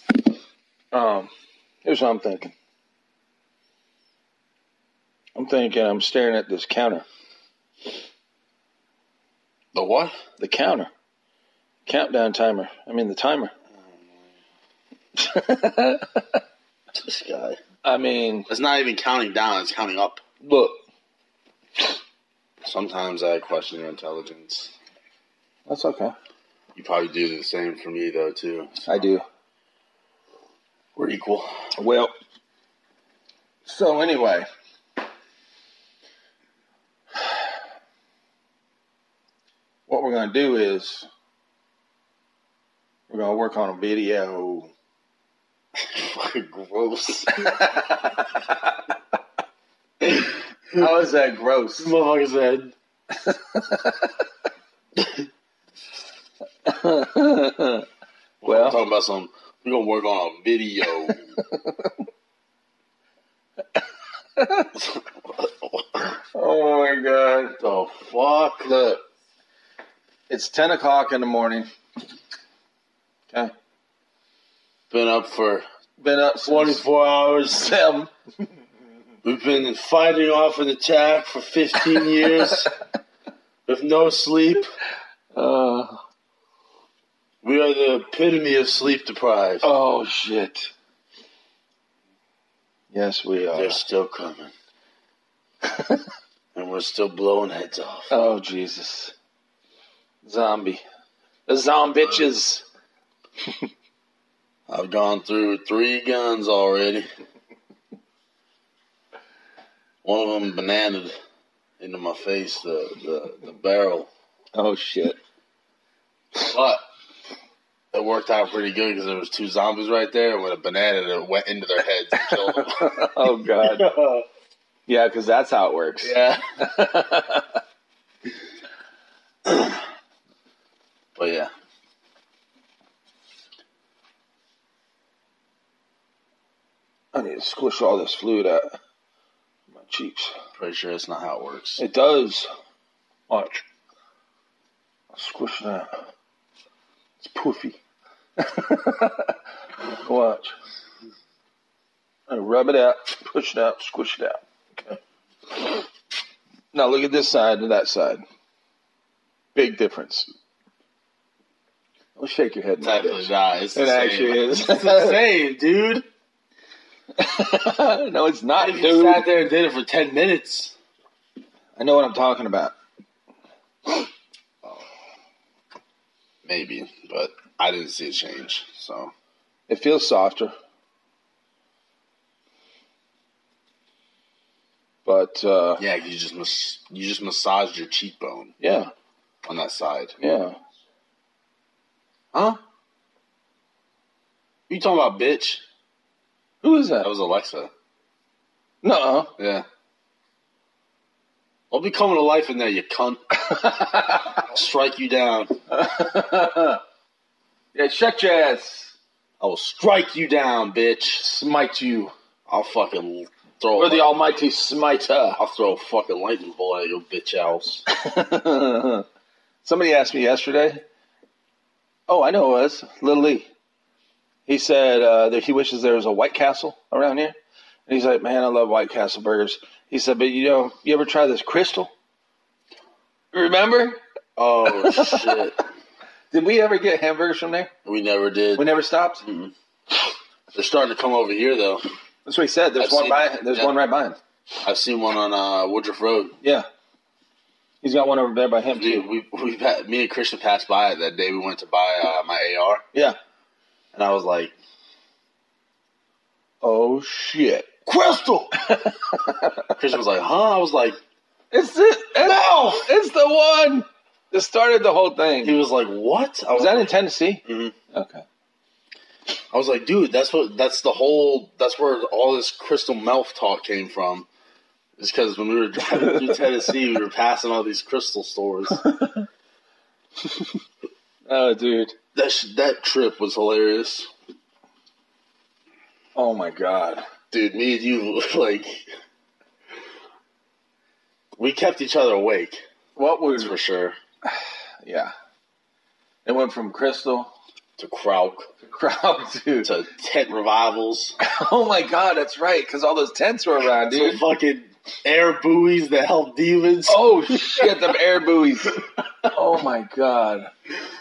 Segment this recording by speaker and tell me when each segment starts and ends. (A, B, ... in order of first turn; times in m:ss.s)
0:00.9-0:01.3 A
0:01.8-0:02.5 A
0:05.4-0:07.0 A
0:09.7-0:10.1 B
0:10.4-0:10.9 A
0:11.8-0:13.5 A
0:13.9-0:14.2 B
0:15.2-0:16.4 A
0:17.0-0:17.6 B
0:17.8-0:18.5 A
0:18.5-0:20.2 B
0:20.4-0:20.8 A
0:22.6-0:24.7 B
0:25.7-0:26.1 A
0:26.7-0:28.9 B
0:28.8-0:29.2 A
0:31.0-0:31.5 B
0:31.8-0:32.1 A
0:33.6-0:34.4 A
0:39.9-0:41.1 A
0:43.1-0:44.7 A
0:45.9-0:47.6 B
0:47.4-0:48.6 A
0:50.0-0:50.9 B
0:50.7-0:51.9 A
0:51.8-0:52.7 B
0:53.2-0:54.1 A
0:55.0-0:55.2 B
0:56.6-0:57.8 A
0:58.4-1:01.2 B
0:58.4-0:58.8 A
1:01.1-1:01.9 A
1:04.4-1:04.7 A
1:04.7-1:06.1 B
1:06.3-1:07.6 A
1:07.6-1:08.8 B
1:08.6-1:09.0 A
1:10.3-1:11.7 A
1:14.9-1:15.6 B
1:16.0-1:16.8 A
1:16.4-1:17.7 B
1:17.5-1:18.1 A
1:19.2-1:22.7 B
1:23.6-1:24.6 B
1:25.4-1:26.0 A
1:27.4-1:29.7 B
1:29.6-1:30.7 A
1:32.9-1:33.8 A
1:33.5-1:34.5 B
1:35.8-1:36.0 A
1:36.5-1:38.1 B
1:38.1-1:39.1 A
1:40.2-1:40.8 A
1:41.5-1:42.6 A
1:44.7-1:47.0 B
1:50.0-1:51.1 B
1:51.8-1:54.1 B
1:54.5-1:55.2 A
1:56.4-1:56.8 B
1:57.9-2:04.2 B
2:02.2-2:03.9 A
2:04.9-2:07.5 A
2:06.0-2:06.4 B
2:09.4-2:09.8 B
2:11.2-2:11.5 B
2:17.1-2:18.7 A
2:19.7-2:20.3 A
2:20.6-2:21.8 B
2:21.8-2:22.5 A
2:23.3-2:23.6 A
2:25.1-2:25.9 A
2:27.2-2:27.8 A
2:28.4-2:29.3 A
2:30.0-2:30.5 A
2:32.3-2:35.0 A
2:35.5-2:35.8 A
2:36.7-2:38.2 A
2:39.5-2:40.3 A
2:42.2-2:45.2 A
2:42.8-2:46.0 B
2:47.2-2:49.2 A
2:48.6-2:50.7 B
2:51.8-2:52.7 A
2:56.4-2:59.1 B
2:59.7-3:00.5 A
3:05.0-3:05.8 A
3:05.8-3:08.5 B
3:08.6-3:08.9 A
3:09.4-3:10.2 B
3:10.2-3:10.6 A
3:12.3-3:12.6 B
3:14.7-3:15.6 B
3:16.6-3:17.1 A
3:17.0-3:17.7 B
3:18.8-3:19.3 A
3:19.4-3:19.6 B
3:21.7-3:23.2 B
3:23.4-3:24.4 A
3:24.5-3:25.5 B
3:25.7-3:26.8 A
3:27.7-3:28.9 A
3:29.4-3:31.2 B
3:31.2-3:32.1 A
3:32.5-3:34.2 B
3:33.7-3:35.4 A
3:35.4-3:37.8 B
3:37.9-3:39.0 A
3:39.6-3:40.8 A
3:42.1-3:43.5 A
3:44.5-3:47.4 A
3:47.9-3:51.9 A
3:53.3-3:54.0 A
3:54.4-3:55.6 B
3:54.8-3:55.3 A
3:56.3-3:57.7 A
3:57.8-3:58.7 B
3:58.6-3:59.2 A
3:59.2-3:59.5 B
4:00.5-4:01.8 B
4:02.2-4:04.2 A
4:02.8-4:03.7 B
4:04.6-4:06.3 B
4:06.4-4:06.6 A
4:07.8-4:09.0 A
4:08.7-4:12.8 B
4:13.9-4:14.5 B
4:16.6-4:17.7 A
4:17.8-4:18.6 B
4:18.6-4:19.7 A
4:19.8-4:21.0 B
4:21.5-4:25.6 A
4:22.2-4:22.6 B
4:25.4-4:27.7 B
4:26.5-4:28.2 A
4:29.5-4:34.3 B
4:35.0-4:38.8 B
4:36.1-4:36.4 A
4:38.8-4:39.2 A
4:41.3-4:41.9 A
4:42.1-4:44.1 B
4:46.1-4:47.0 A
4:47.3-4:48.8 B
4:51.4-4:52.6 B
4:53.0-4:53.5 A
4:53.3-4:54.0 B
4:54.3-4:55.1 A
4:56.2-4:57.3 A
4:57.8-4:58.5 B
4:58.6-4:59.7 A
4:59.6-5:01.2 B
5:01.2-5:04.2 A
5:03.9-5:07.9 B
5:06.9-5:08.8 A
5:09.3-5:10.5 A